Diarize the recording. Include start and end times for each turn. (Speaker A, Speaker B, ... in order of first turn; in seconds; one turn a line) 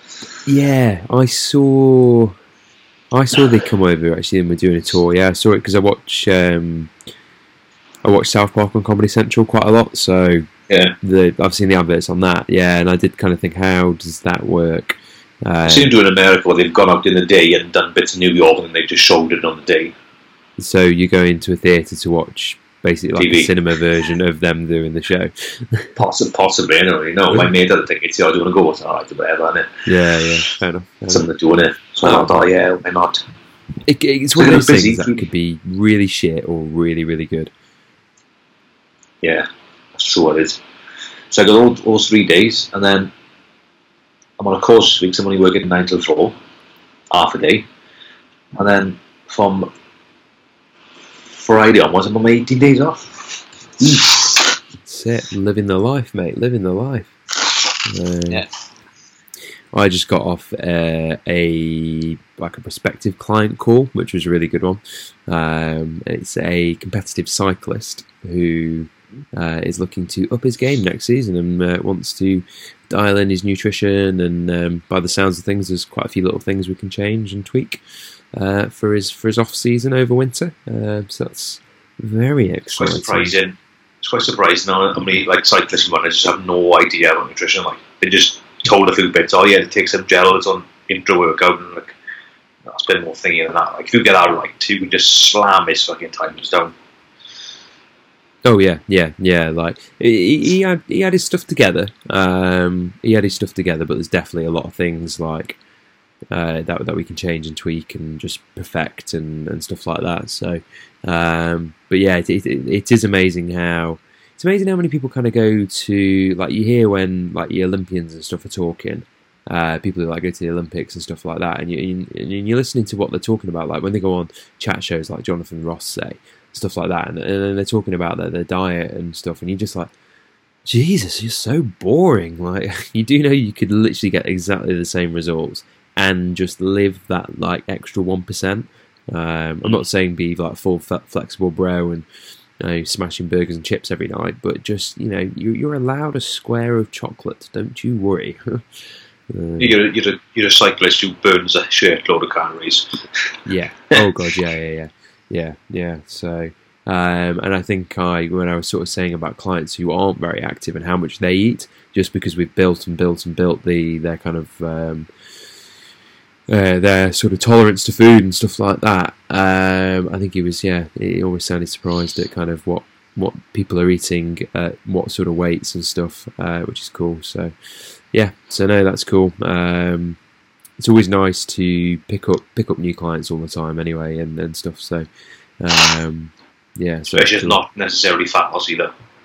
Speaker A: 0.5-2.4
Speaker A: 3.1-6.9
Speaker A: 8.0-10.4
Speaker B: 10.7-10.9
Speaker A: 11.0-15.9
Speaker B: 15.6-19.9
Speaker A: 20.6-25.9
Speaker B: 23.1-23.5
Speaker B: 25.9-29.7
Speaker A: 29.9-31.3
Speaker B: 31.1-33.2
Speaker A: 32.0-32.4
Speaker A: 33.9-37.5
Speaker B: 34.4-35.2
Speaker B: 39.2-40.6
Speaker B: 41.3-43.1
Speaker B: 44.4-46.4
Speaker B: 47.1-47.6
Speaker B: 48.5-49.7
Speaker B: 51.3-54.5
Speaker A: 54.8-57.1
Speaker A: 57.9-58.4
Speaker A: 59.7-77.8
Speaker A: 78.3-83.3
Speaker B: 82.7-92.0
Speaker B: 92.7-96.7
Speaker A: 98.4-105.6
Speaker A: 106.3-129.9
Speaker A: 130.7-142.0
Speaker A: 142.6-148.6
Speaker A: 149.3-149.8
Speaker B: 149.6-153.0
Speaker A: 153.4-165.1
Speaker A: 166.5-177.5
Speaker A: 178.1-180.2
Speaker A: 180.8-185.1
Speaker A: 185.6-187.6
Speaker B: 187.1-188.9